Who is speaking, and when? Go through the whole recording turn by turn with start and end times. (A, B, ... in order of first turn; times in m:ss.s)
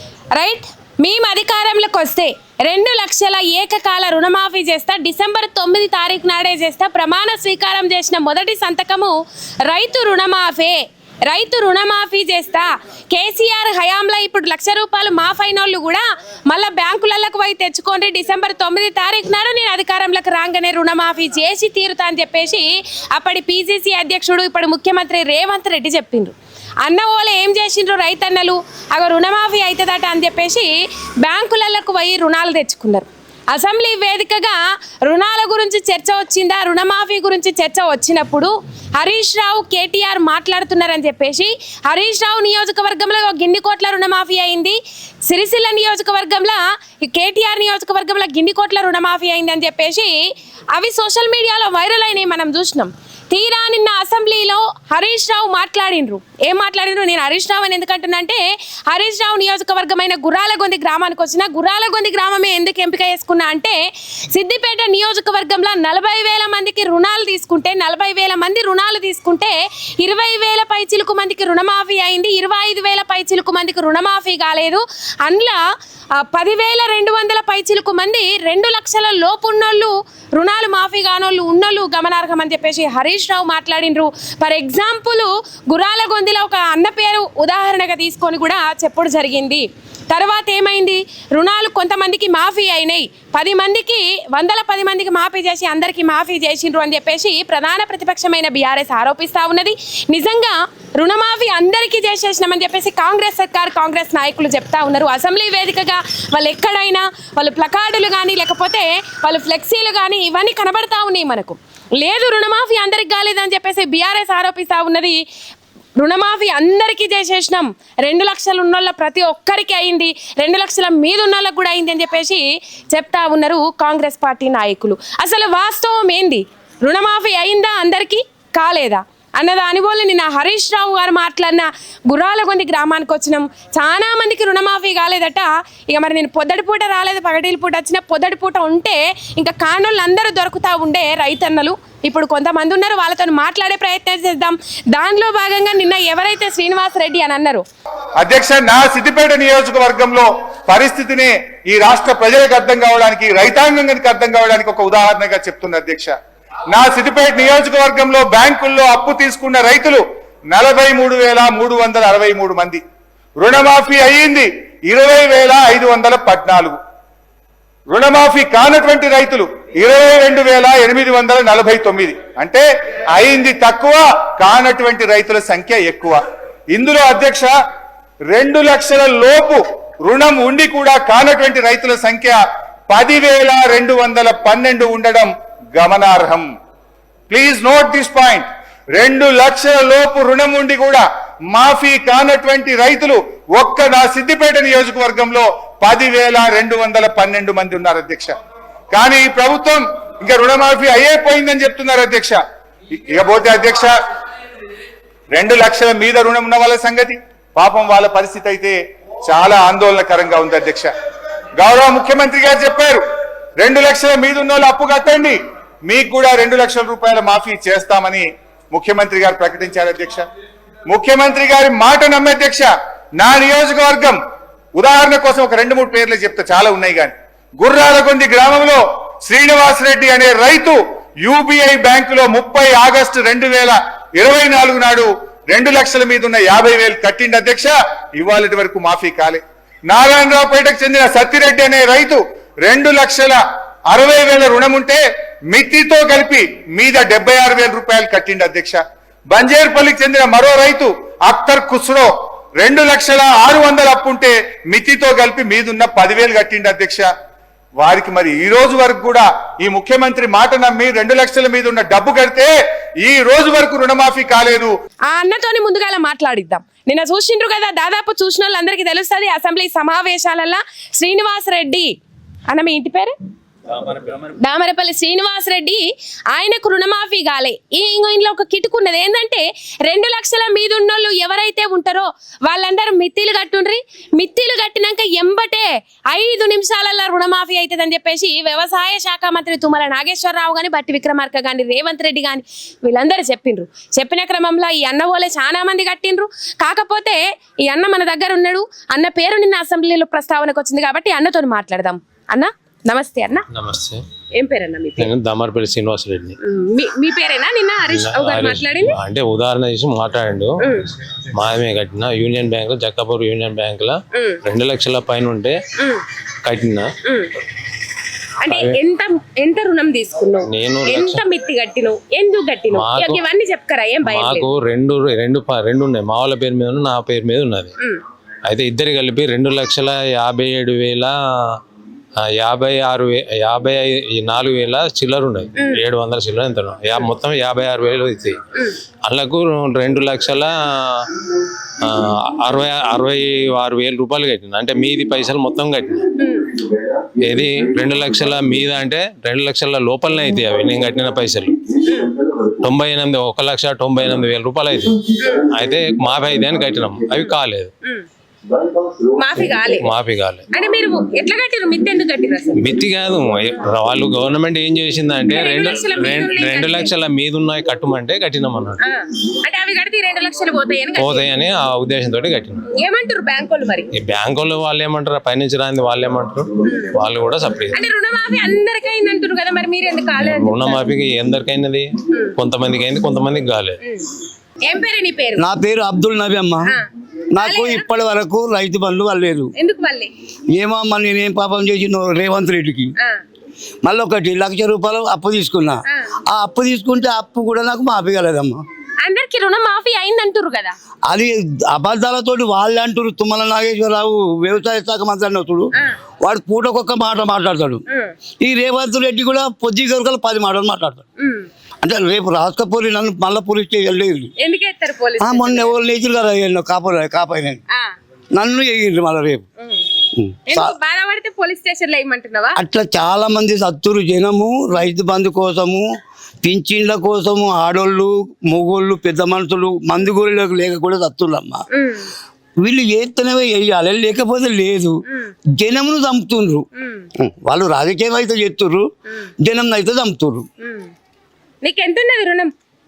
0:00.3-0:44.8 A
0:45.3-0:50.1 A
0:50.7-1:03.8 A
1:04.3-1:15.6 A
1:16.2-1:55.2 A
1:56.0-2:27.6 A
2:28.2-2:36.2 B
2:36.7-2:42.8 B
2:43.4-2:46.8 B
2:47.9-2:56.2 B
2:56.7-2:57.6 B
2:58.3-3:06.5 B
3:07.3-3:18.3 B
3:18.9-3:22.4 B
3:23.0-3:24.0 B
3:25.3-3:30.9 B
3:31.6-3:33.0 B
3:33.6-3:40.2 B
3:40.9-3:44.2 B
3:44.8-4:17.1 B
4:17.8-4:24.7 B
4:25.1-4:32.0 A
4:32.5-4:33.2 A
4:34.1-5:03.4 A
5:03.5-5:04.0 C
5:04.4-5:05.1 A
5:05.0-5:06.3 C
5:06.4-5:09.0 A
5:07.9-5:10.5 C
5:10.6-5:10.9 A
5:11.3-5:15.5 C
5:14.1-5:14.4 A
5:16.5-5:16.9 C
5:17.0-5:17.3 A
5:18.4-5:24.5 A
5:18.5-5:18.8 C
5:20.5-5:21.2 C
5:22.7-5:23.2 C
5:24.0-5:27.7 C
5:28.5-5:31.1 C
5:32.4-5:38.4 C
5:35.6-5:35.8 A
5:39.1-5:41.1 C
5:41.8-5:46.0 C
5:46.2-5:46.5 A
5:47.2-5:51.6 C
5:51.8-5:52.1 A
5:52.6-5:57.7 C
5:55.2-5:55.5 A
5:59.2-5:59.9 A
5:59.8-6:00.4 C
6:00.5-6:02.7 A
6:02.6-6:08.8 C
6:05.3-6:06.9 A
6:08.8-6:11.3 A
6:11.0-6:12.6 C
6:12.8-6:13.9 A
6:14.0-6:17.8 C
6:16.6-6:16.9 A
6:17.7-6:20.9 A
6:20.2-6:21.9 C
6:22.1-6:22.4 A
6:22.4-6:23.8 C
6:24.6-6:25.4 A
6:25.4-6:26.7 D
6:27.3-6:29.5 D
6:27.4-6:27.9 A
6:29.6-6:30.1 A
6:30.5-6:32.9 D
6:33.8-6:38.6 D
6:39.0-6:40.8 A
6:41.1-6:45.7 D
6:46.2-6:47.8 D
6:47.9-6:48.1 A
6:48.4-6:51.0 D
6:51.2-6:51.5 A
6:51.8-6:54.3 D
6:54.4-6:55.8 A
6:55.2-6:57.6 D
6:58.4-6:59.4 D
6:59.6-6:59.9 A
7:00.2-7:00.7 D
7:00.5-7:02.6 A
7:02.6-7:05.9 D
7:06.4-7:11.6 D
7:11.7-7:12.1 A
7:12.6-7:15.0 D
7:15.1-7:15.3 A
7:15.6-7:16.6 D
7:16.8-7:17.1 A
7:17.2-7:18.9 D
7:19.4-7:20.5 D
7:20.6-7:20.9 A
7:21.6-7:22.5 A